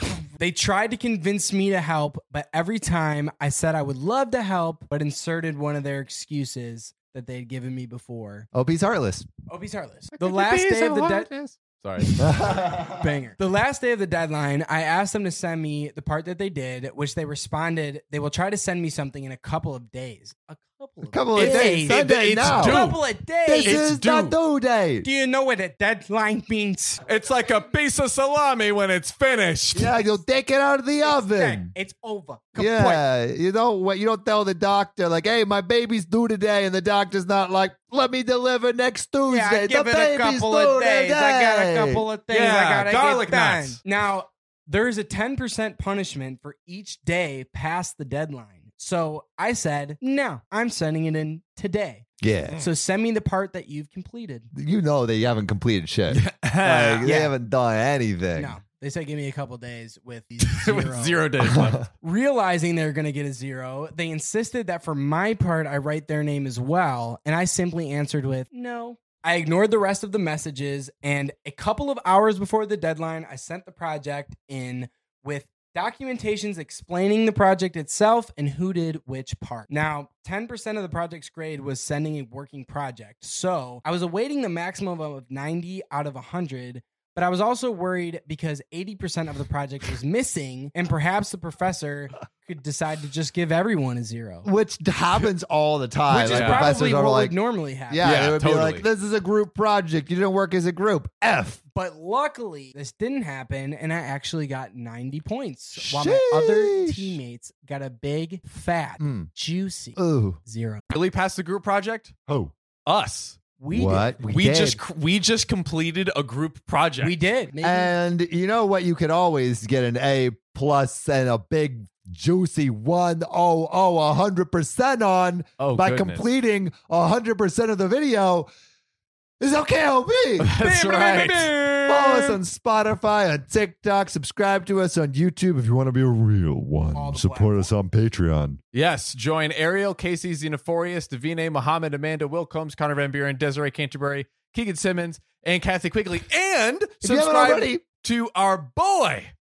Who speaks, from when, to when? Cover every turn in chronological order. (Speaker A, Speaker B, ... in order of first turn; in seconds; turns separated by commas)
Speaker A: 0.4-8.5, Speaker B: 8.5-9.3, Speaker A: 9.5-11.3, Speaker C: 10.4-12.6, Speaker B: 10.7-11.1, Speaker B: 12.2-13.0, Speaker A: 12.3-23.9, Speaker B: 21.1-22.9, Speaker C: 22.5-23.0, Speaker B: 23.4-25.1, Speaker C: 23.6-24.4, Speaker A: 25.0-27.0, Speaker C: 27.0-29.9, Speaker B: 29.7-31.7, Speaker A: 31.0-33.0, Speaker B: 32.6-42.1, Speaker A: 39.3-52.1, Speaker C: 42.3-43.8, Speaker B: 52.2-52.6, Speaker A: 52.6-54.5, Speaker B: 54.5-58.5, Speaker C: 56.1-57.1, Speaker A: 57.0-57.3, Speaker A: 58.4-94.5, Speaker C: 60.4-61.8, Speaker B: 94.5-97.4, Speaker A: 96.1-98.2, Speaker C: 96.2-96.7, Speaker B: 97.9-101.6, Speaker C: 98.0-98.9, Speaker A: 101.7-110.8, Speaker B: 105.8-107.2, Speaker B: 109.0-109.3, Speaker B: 110.0-110.4, Speaker C: 110.9-112.2, Speaker B: 112.3-112.5, Speaker C: 112.9-113.4, Speaker A: 113.6-114.2, Speaker B: 113.7-114.8, Speaker C: 114.2-117.2, Speaker A: 117.0-117.9, Speaker B: 117.6-128.5, Speaker C: 125.6-126.3, Speaker B: 129.4-130.5, Speaker C: 130.4-131.8, Speaker A: 130.6-132.4, Speaker B: 131.8-138.6, Speaker A: 136.9-137.7, Speaker C: 138.7-149.3, Speaker B: 147.0-147.8